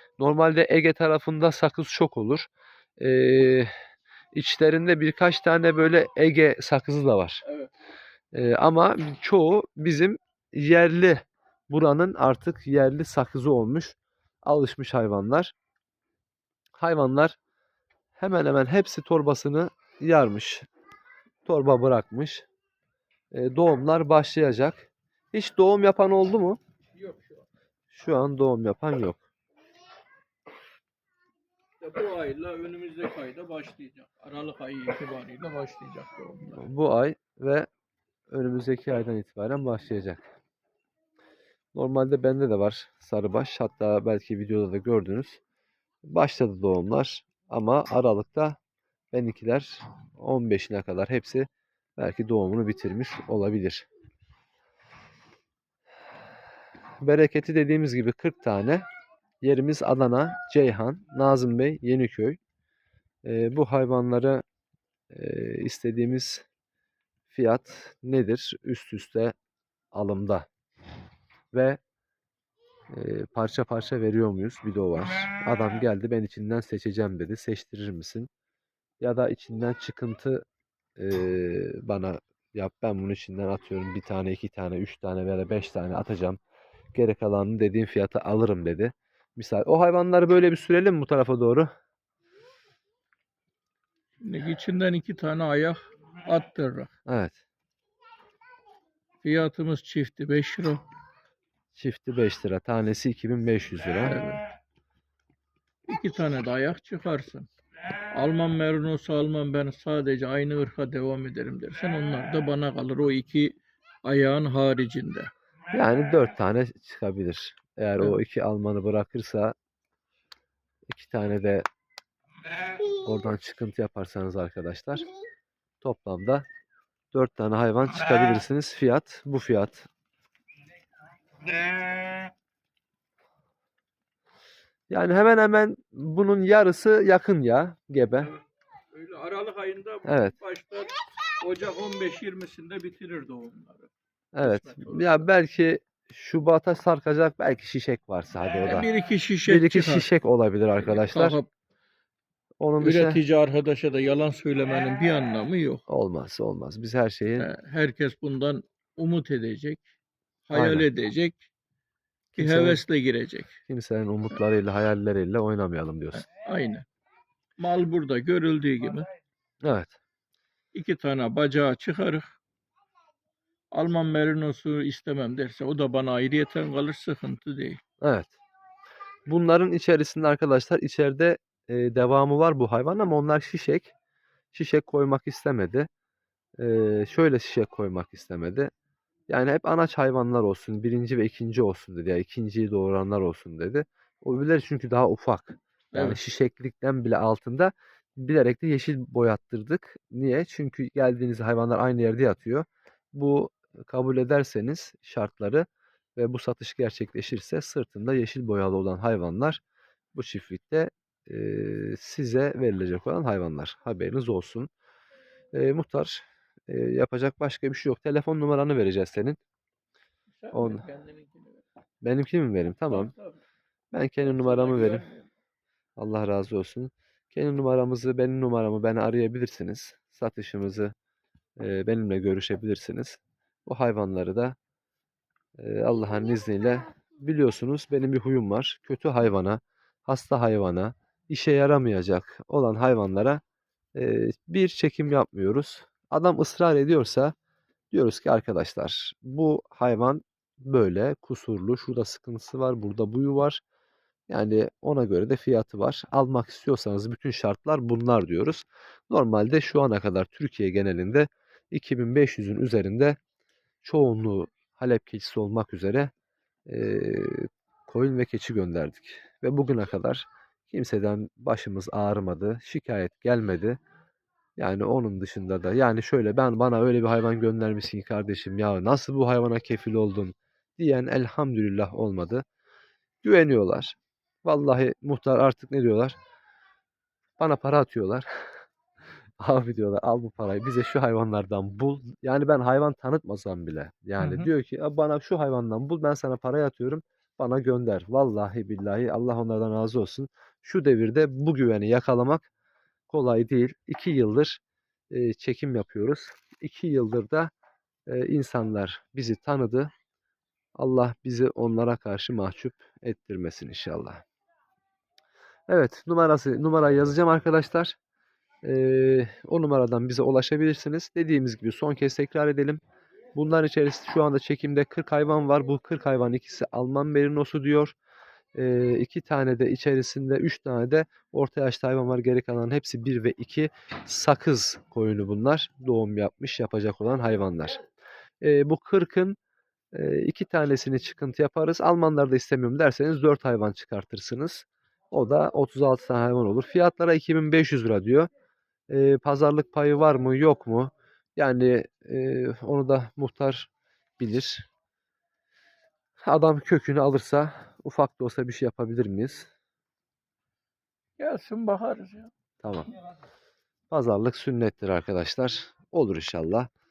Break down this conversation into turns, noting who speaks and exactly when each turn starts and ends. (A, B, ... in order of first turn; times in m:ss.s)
0:00.2-0:02.5 A
0:03.0-0:03.7 A
0:04.3-0:07.4 A
0:07.4-0:07.7 B
0:08.3-0:15.5 A
0:16.8-0:17.4 A
0:18.2-0:20.6 A
0:21.4-0:22.4 A
0:23.3-0:26.6 A
0:27.0-0:27.4 B
0:27.9-0:29.2 A
0:31.8-0:36.7 B
0:36.5-0:37.7 A
0:38.3-0:40.2 A
0:41.7-0:45.4 A
0:46.1-0:48.6 A
0:49.1-0:53.9 A
0:57.0-0:58.8 A
0:59.4-1:02.4 A
1:03.2-1:04.4 A
1:05.1-1:06.4 A
1:07.3-1:09.3 A
1:09.9-1:10.4 A
1:11.5-1:11.8 A
1:12.9-1:18.3 A
1:19.0-1:20.4 A
1:21.0-1:26.4 A
1:26.9-1:31.7 A
1:34.2-1:36.9 B
1:37.1-1:37.4 A
1:39.2-1:40.8 B
1:41.7-1:44.2 A
1:44.0-1:44.4 B
1:45.9-1:47.5 B
1:48.1-1:55.3 B
1:55.7-1:59.5 A
2:00.9-2:01.6 A
2:02.9-2:05.1 A
2:05.8-2:06.4 A
2:07.1-2:09.9 A
2:14.9-2:18.3 A
2:18.9-2:25.3 B
2:20.0-2:20.3 A
2:24.3-2:28.9 A
2:28.6-2:30.1 B
2:29.4-2:31.4 A
2:30.8-2:31.5 B
2:32.6-2:33.2 A
2:32.8-2:35.8 B
2:35.9-2:37.5 A
2:37.4-2:39.8 B
2:40.4-2:41.5 B
2:40.5-2:40.9 A
2:42.3-2:42.8 A
2:42.4-2:43.6 B
2:43.7-2:46.2 A
2:46.1-2:46.8 B
2:47.6-2:49.1 B
2:49.6-2:50.0 A
2:50.7-2:52.3 B
2:53.7-2:57.8 B
2:58.0-2:58.3 A
2:59.3-3:03.9 A
3:04.5-3:05.9 A
3:06.6-3:08.7 A
3:09.3-3:29.6 A
3:15.9-3:16.2 B
3:30.1-3:34.7 A
3:35.5-3:39.4 A
3:40.3-3:41.6 B
3:40.5-3:40.8 A
3:42.0-3:43.1 A
3:42.9-3:43.4 B
3:43.9-3:45.1 A
3:44.2-3:45.3 B
3:46.0-3:50.9 A
3:51.6-3:54.6 A
3:55.6-4:03.4 A
4:03.9-4:07.3 A
4:07.9-4:13.6 A
4:14.3-4:23.2 A
4:23.8-4:26.1 A
4:26.7-4:33.8 A
4:34.6-4:42.4 A
4:43.2-4:46.2 A
4:47.4-4:48.2 A
4:49.4-5:02.4 A
4:54.2-4:54.5 B
5:03.1-5:07.5 A
5:08.1-5:09.9 A
5:10.8-5:14.2 A
5:15.7-5:18.0 A
5:18.6-5:22.8 A
5:23.3-5:27.9 A
5:28.5-5:37.8 A
5:38.4-5:39.4 A
5:39.9-5:48.3 A
5:48.9-5:54.6 A
5:56.2-5:59.5 A
6:01.2-6:02.3 B
6:02.6-6:02.9 A
6:03.9-6:06.7 A